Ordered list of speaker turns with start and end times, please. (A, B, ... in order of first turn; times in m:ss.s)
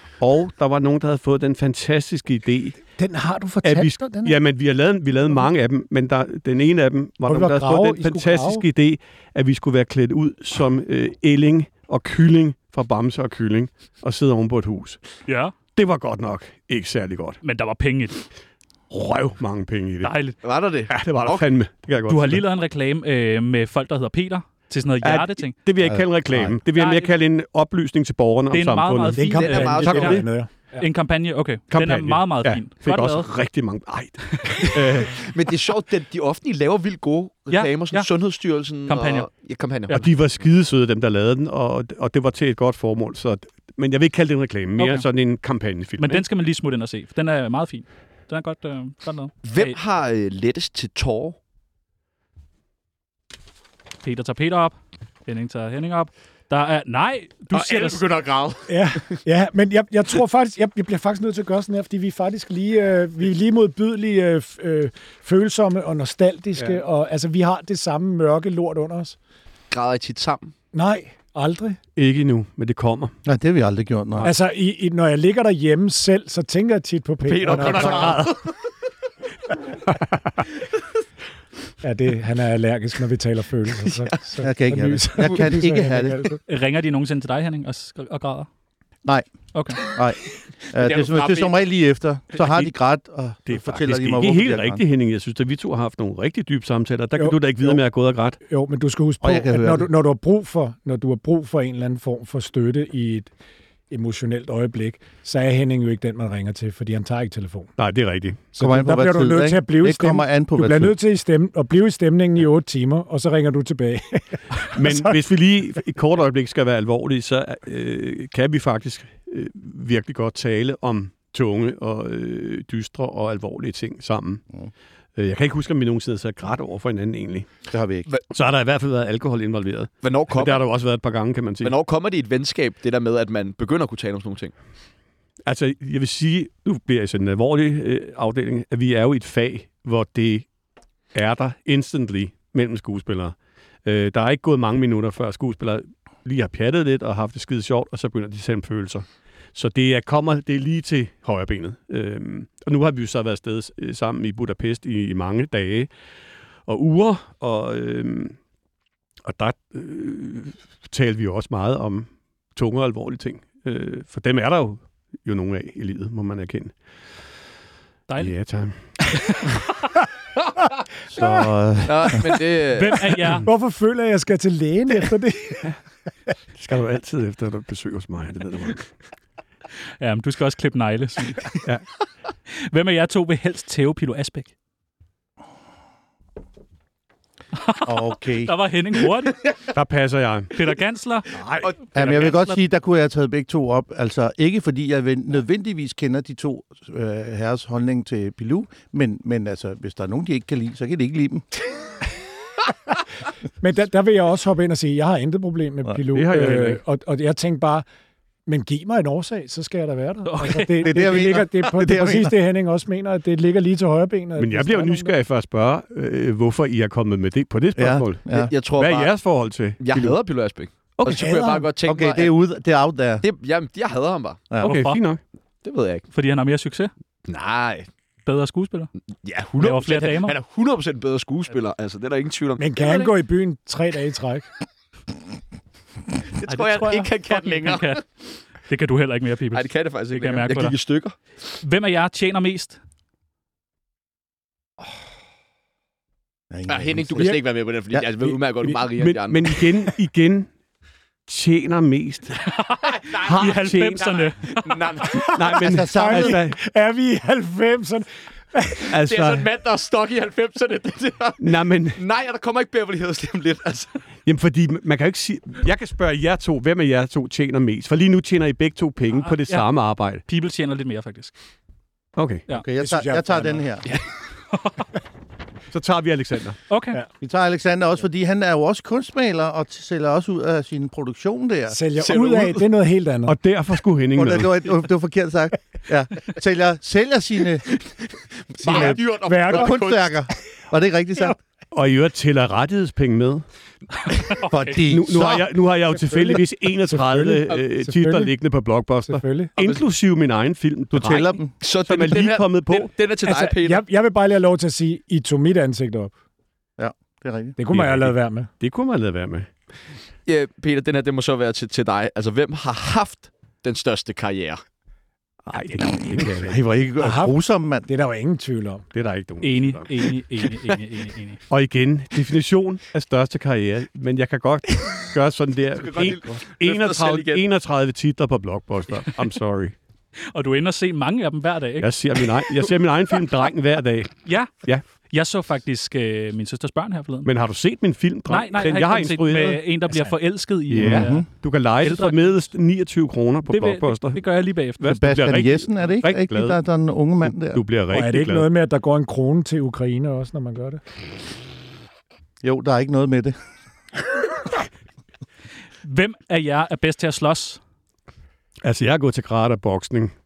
0:00.2-0:02.8 A
0:03.0-0:04.4 B
0:03.6-0:15.0 A
0:07.3-0:08.6 B
0:15.3-0:15.6 C
0:15.8-0:17.4 A
0:17.4-0:18.2 C
0:18.9-0:20.2 A
0:20.0-0:20.4 C
0:20.4-0:21.5 D
0:20.9-0:22.4 A
0:22.1-0:25.6 C
0:25.0-0:30.2 A
0:25.8-0:26.6 E
0:26.7-0:27.1 C
0:28.5-0:30.2 C
0:29.1-0:30.8 B
0:29.4-0:30.2 D
0:30.8-0:33.3 C
0:31.7-0:35.2 A
0:34.4-0:34.8 C
0:35.0-0:40.1 D
0:37.5-0:38.1 C
0:38.9-0:39.3 C
0:39.9-0:46.2 A
0:44.8-0:45.1 C
0:46.0-0:49.8 C
0:49.4-0:51.4 D
0:54.0-0:58.1 C
0:57.5-0:59.2 D
0:58.7-1:09.2 B
1:09.7-1:10.5 D
1:10.7-1:11.8 B
1:12.0-1:13.2 A
1:13.3-1:14.3 E
1:14.2-1:18.2 B
1:17.2-1:18.5 D
1:17.8-1:18.3 A
1:21.8-1:26.4 B
1:23.8-1:24.3 D
1:24.4-1:26.3 E
1:26.5-1:28.5 C
1:29.5-1:29.8 C
1:29.9-1:34.8 E
1:30.8-1:31.6 D
1:33.5-1:38.4 A
1:37.2-1:37.8 B
1:38.5-1:43.3 B
1:39.2-1:39.9 E
1:43.9-1:47.7 B
1:47.8-1:48.4 A
1:48.5-1:55.2 B
1:48.6-1:51.0 E
1:54.7-2:04.4 A
2:05.2-2:07.5 A
2:07.7-2:08.1 E
2:08.3-2:11.8 A
2:10.0-2:10.6 D
2:11.6-2:14.5 D
2:15.5-2:20.5 A
2:21.1-2:35.9 A
2:36.7-2:38.4 A
2:39.2-2:46.8 A
2:48.1-2:48.3 C
2:48.2-2:49.1 A
2:51.1-2:52.4 E
2:51.8-2:53.4 D
2:52.7-2:53.5 C
2:53.4-2:55.7 B
2:56.6-2:58.9 A
3:00.0-3:01.7 C
3:02.6-3:04.5 C
3:07.6-3:09.5 C
3:07.8-3:08.5 E
3:09.7-3:10.6 A
3:10.5-3:11.4 C
3:11.3-3:11.7 A
3:11.6-3:12.3 D
3:11.9-3:21.5 E
3:12.0-3:12.6 C
3:23.6-3:27.9 B
3:26.1-3:26.8 A
3:28.5-3:35.1 B
3:30.3-3:30.9 C
3:30.8-3:32.3 E
3:34.4-3:40.2 A
3:37.8-3:38.5 E
3:38.4-3:39.1 D
3:39.8-3:42.4 D
3:41.0-3:41.7 B
3:41.9-3:43.2 E
3:43.2-3:44.5 D
3:44.6-3:45.0 C
3:44.6-3:45.2 A
3:45.6-3:46.1 D
3:46.1-3:46.9 C
3:47.3-3:47.9 D
3:48.2-3:48.9 C
3:49.2-3:53.2 D
3:49.6-3:50.4 C
3:52.6-3:54.5 B
3:56.4-3:58.0 D
3:56.5-3:58.0 C
3:58.7-4:00.8 C
3:59.5-4:01.2 D
4:01.6-4:02.8 C
4:06.5-4:07.4 E
4:06.7-4:09.6 D
4:07.9-4:08.3 E
4:08.9-4:10.5 A
4:11.3-4:12.5 A
4:12.4-4:14.8 C
4:12.9-4:13.4 D
4:13.2-4:14.1 A
4:14.0-4:15.3 D
4:15.1-4:18.9 B
4:15.3-4:16.6 A
4:15.6-4:16.4 E
4:18.9-4:19.5 A
4:18.9-4:23.9 D
4:21.4-4:22.0 A
4:24.3-4:30.2 A
4:29.2-4:29.7 C
4:30.2-4:31.3 C
4:32.2-4:32.4 A
4:32.6-4:33.9 E
4:32.8-4:33.7 B
4:34.5-4:34.8 C
4:35.7-4:36.6 A
4:36.7-4:37.0 C
4:37.2-4:41.8 E
4:41.7-4:43.4 B
4:42.0-4:42.7 D
4:43.3-4:44.6 A
4:44.2-4:47.7 E
4:47.7-4:50.2 D
4:48.6-4:51.4 E
4:48.6-4:49.8 B
4:51.7-4:53.4 A
4:54.3-4:54.8 C
4:54.4-4:55.5 E
4:54.8-5:02.9 A
4:55.9-4:58.4 B
4:59.1-4:59.5 B
5:00.9-5:01.6 E
5:01.1-5:03.8 D
5:03.2-5:06.1 B
5:06.8-5:07.6 E
5:07.6-5:08.5 B
5:07.7-5:09.5 A
5:10.3-5:14.6 D
5:15.5-5:16.6 A
5:15.7-5:17.9 E
5:17.0-5:18.8 B
5:18.9-5:20.0 A
5:19.4-5:21.4 C
5:21.5-5:29.8 A
5:25.8-5:27.4 D
5:30.3-5:31.9 C
5:31.8-5:34.8 A
5:34.2-5:34.5 C
5:35.1-5:37.3 C
5:37.2-5:39.6 A
5:38.3-5:41.3 C
5:40.7-5:44.2 A
5:40.9-5:41.2 B
5:40.9-5:41.3 E
5:41.8-5:42.4 C
5:43.5-5:45.0 C
5:44.8-5:46.6 A
5:44.8-5:47.6 E
5:47.2-5:48.5 A
5:47.9-5:50.8 B
5:52.4-5:53.4 E
5:55.8-5:57.6 C
5:58.6-6:00.1 A